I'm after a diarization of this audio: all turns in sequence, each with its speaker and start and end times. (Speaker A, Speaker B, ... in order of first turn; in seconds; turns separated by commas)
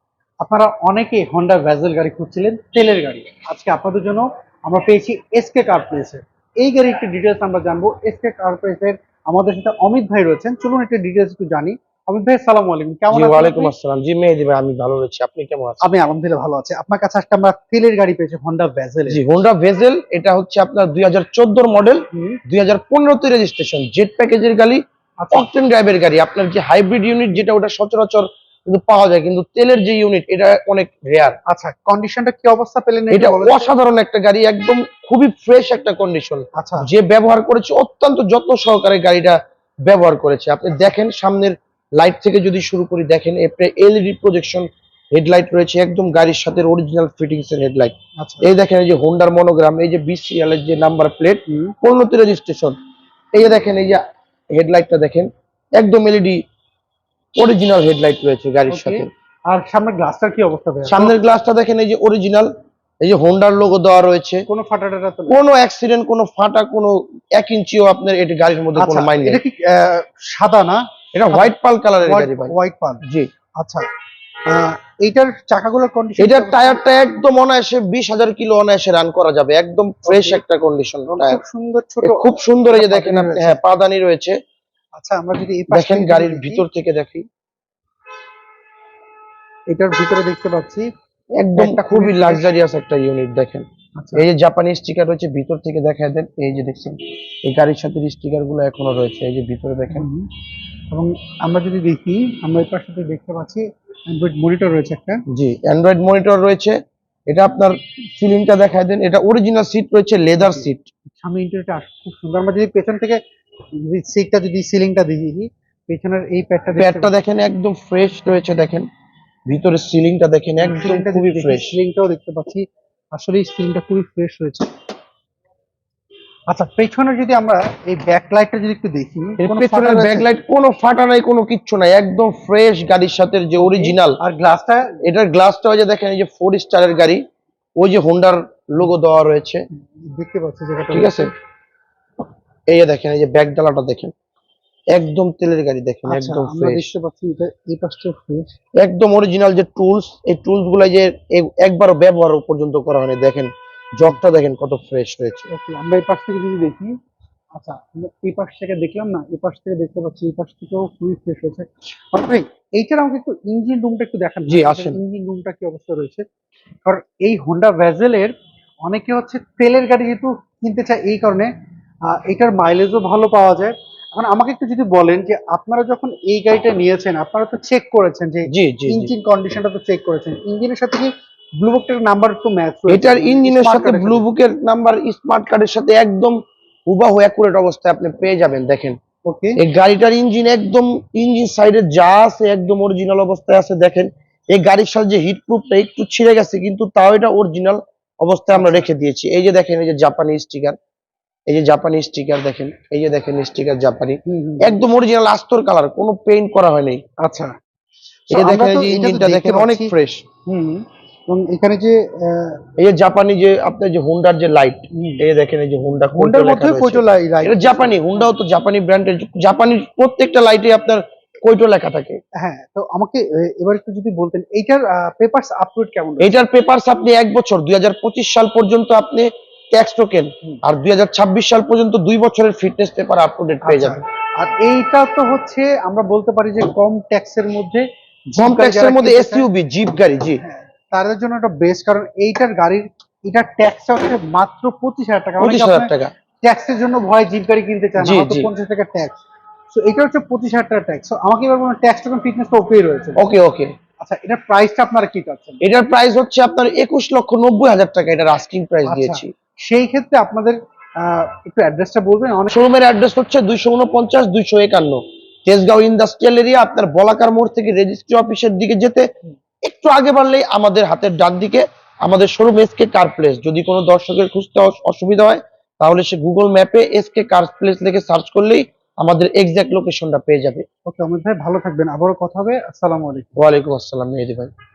Speaker A: 0.4-13.7, Speaker B: 13.1-15.8, Speaker A: 15.8-19.2, Speaker B: 19.1-31.4, Speaker A: 22.1-22.4, Speaker A: 25.2-25.5, Speaker A: 31.4-33.7, Speaker B: 33.1-52.8, Speaker A: 36.5-36.9, Speaker A: 48.2-48.5, Speaker A: 51.5-51.7, Speaker B: 53.3-54.0, Speaker B: 54.5-56.4, Speaker B: 57.4-59.1, Speaker A: 58.7-61.2, Speaker B: 60.8-62.5, Speaker B: 63.0-64.5, Speaker A: 64.5-65.4, Speaker B: 65.3-69.4, Speaker A: 68.8-73.0, Speaker B: 71.1-73.3, Speaker A: 73.6-73.9, Speaker A: 74.5-76.8, Speaker B: 76.2-81.4, Speaker A: 80.0-80.4, Speaker A: 81.1-83.6, Speaker B: 82.0-84.4, Speaker A: 84.9-86.6, Speaker B: 85.7-87.2, Speaker A: 89.7-90.9, Speaker B: 91.3-100.0, Speaker A: 91.5-92.5, Speaker A: 94.0-94.2, Speaker A: 99.9-100.3, Speaker A: 100.9-105.2, Speaker B: 105.3-106.8, Speaker B: 107.3-110.8, Speaker A: 110.4-113.2, Speaker A: 113.8-117.1, Speaker B: 116.8-118.9, Speaker B: 119.5-121.8, Speaker A: 120.6-124.7, Speaker A: 126.5-130.3, Speaker B: 129.4-134.2, Speaker A: 133.6-135.0, Speaker B: 135.0-137.2, Speaker B: 137.8-139.7, Speaker A: 139.8-141.3, Speaker B: 140.9-141.3, Speaker B: 142.7-144.1, Speaker B: 144.9-146.9, Speaker A: 146.1-148.5, Speaker B: 148.8-155.5, Speaker A: 155.5-156.9, Speaker A: 157.6-166.2, Speaker B: 164.5-165.0, Speaker A: 166.8-171.5, Speaker A: 172.1-184.2, Speaker B: 178.5-179.1, Speaker B: 182.9-189.0, Speaker A: 189.2-189.6, Speaker B: 189.6-200.8, Speaker A: 198.5-198.8, Speaker B: 201.5-207.0, Speaker A: 204.2-204.8, Speaker A: 207.2-207.5, Speaker A: 208.3-209.9, Speaker B: 208.3-210.2, Speaker A: 210.4-212.6, Speaker B: 212.8-222.2, Speaker A: 214.9-215.2, Speaker A: 216.1-218.3, Speaker A: 222.3-226.4, Speaker B: 226.2-234.0, Speaker A: 233.6-239.5, Speaker B: 238.3-240.4, Speaker A: 240.4-249.2, Speaker B: 245.4-246.1, Speaker B: 248.0-248.5, Speaker A: 249.7-253.2, Speaker B: 253.2-253.7, Speaker A: 254.0-255.6, Speaker B: 255.6-259.3, Speaker A: 258.9-262.6, Speaker B: 262.5-269.1, Speaker B: 269.6-280.6, Speaker A: 280.9-283.3, Speaker B: 283.4-284.5